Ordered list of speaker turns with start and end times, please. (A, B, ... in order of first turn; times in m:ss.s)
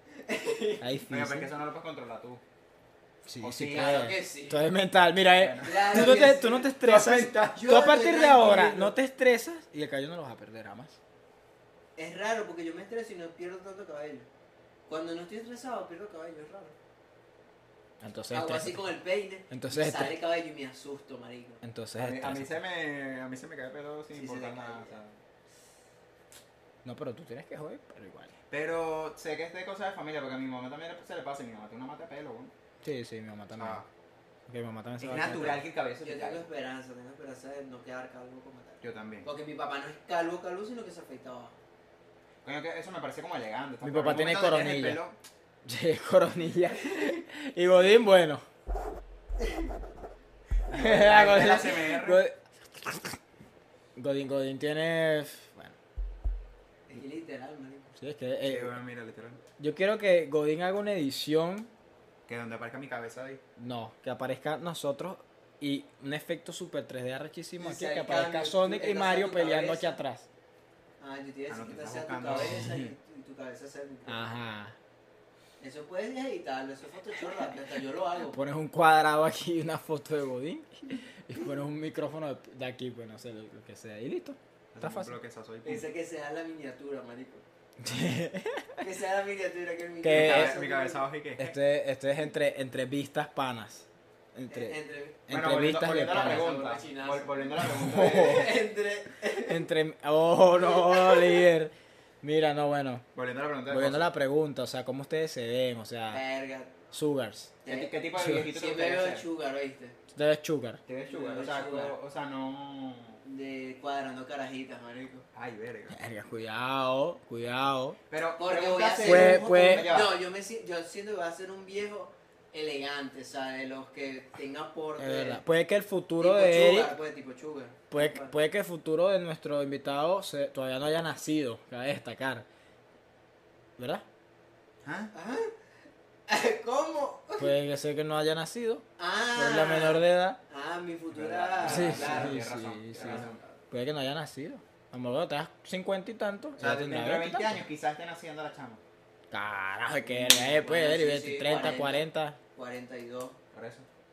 0:00.2-0:00.8 A
0:00.8-0:01.5 B
0:01.1-0:02.4 C
0:03.2-0:11.0 B
0:03.4-0:04.1 C
0:03.6-0:04.7 A
0:05.4-0:05.9 C
0:05.6-0:09.0 A
0:12.0-0:14.3 A
0:14.9-0:16.8 A
0:18.0-0:18.8 B
0:18.3-0:21.6 A
0:19.5-0:20.2 B
0:21.6-0:22.6 B
0:22.0-0:25.2 C
0:24.1-0:25.0 A
0:26.8-0:28.3 B
0:28.5-0:32.5 C
0:32.8-0:33.8 B
0:33.6-0:33.9 C
0:34.5-0:35.6 B
0:35.0-0:36.5 C
0:36.0-0:41.6 A
0:38.8-0:39.3 C
0:42.4-0:45.2 C
0:43.8-0:45.0 B
0:45.6-0:48.4 B
0:49.4-0:49.7 A
0:50.7-0:52.2 C
0:50.7-0:53.2 B
0:51.2-0:51.5 A
0:54.0-0:55.8 B
0:56.9-0:57.9 A
0:58.0-0:58.8 B
0:58.4-0:59.4 C
0:59.6-1:01.7 B
1:02.3-1:03.4 C
1:03.6-1:10.3 B
1:07.6-1:10.0 A
1:11.0-1:14.3 A
1:11.5-1:12.7 C
1:12.3-1:12.9 B
1:14.1-1:14.8 B
1:15.6-1:18.4 A
1:18.2-1:25.2 B
1:24.7-1:25.9 C
1:25.6-1:27.4 A
1:27.8-1:28.8 B
1:28.8-1:31.1 A
1:30.0-1:30.6 B
1:30.1-1:31.6 C
1:31.4-1:36.6 B
1:34.5-1:35.2 A
1:35.3-1:38.6 C
1:36.1-1:39.7 A
1:37.6-1:38.5 B
1:39.2-1:43.1 B
1:40.6-1:41.5 A
1:43.2-1:44.1 C
1:43.7-1:46.2 B
1:46.1-1:46.8 A
1:46.9-1:47.6 B
1:47.6-1:47.9 A
1:47.7-1:49.3 C
1:48.2-1:48.5 B
1:48.5-1:50.0 A
1:50.1-1:50.8 B
1:50.9-1:53.2 C
1:51.1-1:52.0 A
1:53.2-1:55.2 A
1:55.3-1:56.0 C
1:55.9-1:58.0 B
1:58.1-2:00.2 C
1:58.4-2:05.4 A
1:59.0-1:59.9 B
2:05.0-2:07.0 B
2:06.2-2:08.4 A
2:07.9-2:12.5 B
2:13.8-2:14.0 B
2:14.8-2:15.1 C
2:15.1-2:15.5 A
2:16.3-2:17.5 A
2:17.4-2:20.4 B
2:19.0-2:23.6 A
2:21.1-2:23.4 C
2:21.6-2:27.6 B
2:26.6-2:28.8 C
2:29.3-2:32.4 B
2:30.0-2:33.4 A
2:33.5-2:33.9 C